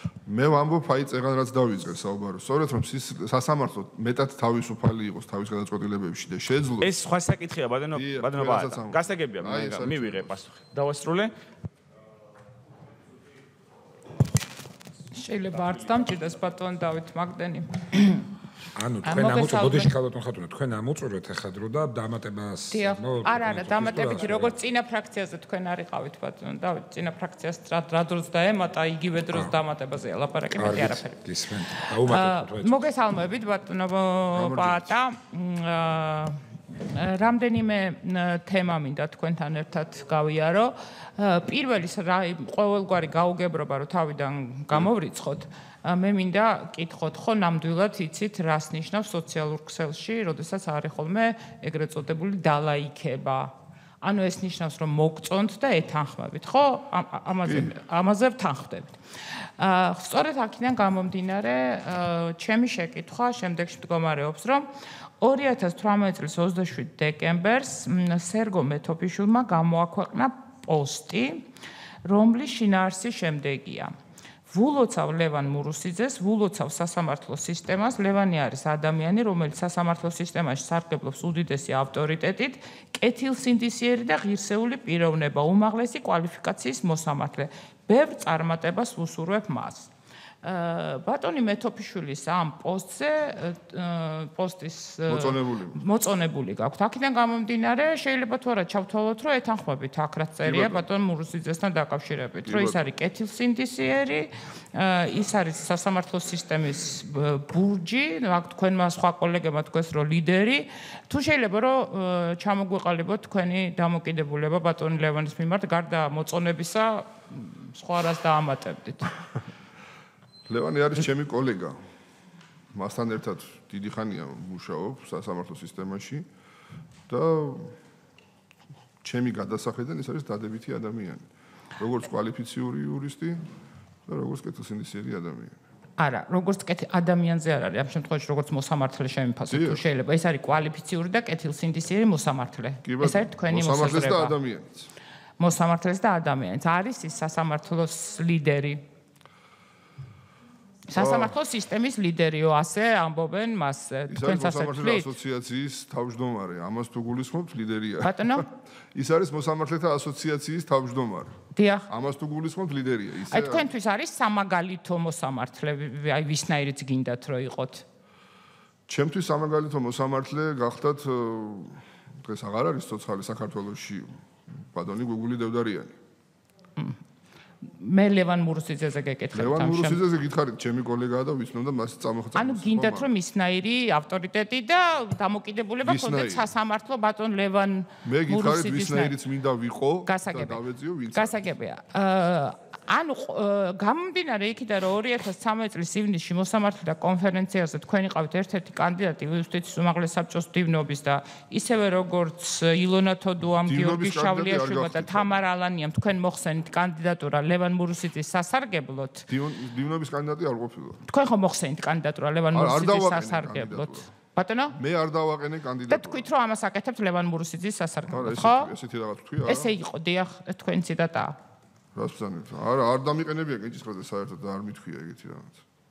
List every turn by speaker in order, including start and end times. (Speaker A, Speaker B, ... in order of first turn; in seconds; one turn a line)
Speaker A: 0.2-6.9
Speaker B: 6.8-11.3
Speaker A: 7.9-10.4
Speaker C: 15.1-18.3
Speaker D: 18.7-24.5
Speaker C: 19.0-19.9
Speaker C: 22.7-31.1
Speaker D: 30.5-32.8
Speaker C: 31.8-71.5
Speaker A: 34.3-34.9
Speaker C: 72.0-73.9
Speaker C: 74.5-89.9
Speaker C: 90.4-119.1
Speaker A: 95.1-95.8
Speaker A: 100.4-100.8
Speaker A: 102.5-102.8
Speaker A: 120.5-121.8
Speaker A: 122.7-126.2
Speaker A: 127.1-127.7
Speaker A: 129.0-131.2
Speaker A: 131.8-133.4
Speaker A: 134.1-135.6
Speaker C: 136.0-144.3
Speaker A: 139.5-139.8
Speaker A: 142.8-144.9
Speaker C: 145.4-148.8
Speaker C: 150.9-155.1
Speaker A: 150.9-151.3
Speaker A: 154.1-161.3
Speaker C: 158.0-158.5
Speaker C: 161.5-161.9
Speaker A: 161.9-163.7
Speaker C: 163.3-167.8
Speaker A: 168.9-175.9
Speaker C: 177.6-180.0
Speaker A: 179.3-183.1
Speaker C: 182.3-189.1
Speaker A: 185.8-186.5
Speaker A: 188.0-191.4
Speaker C: 190.1-190.6
Speaker C: 191.1-209.3
Speaker A: 203.7-205.4
Speaker A: 209.3-211.0
Speaker C: 211.1-214.8
Speaker A: 212.5-214.1
Speaker A: 214.8-216.2
Speaker C: 215.9-218.7
Speaker A: 218.1-219.7
Speaker C: 219.4-221.3
Speaker A: 221.9-225.6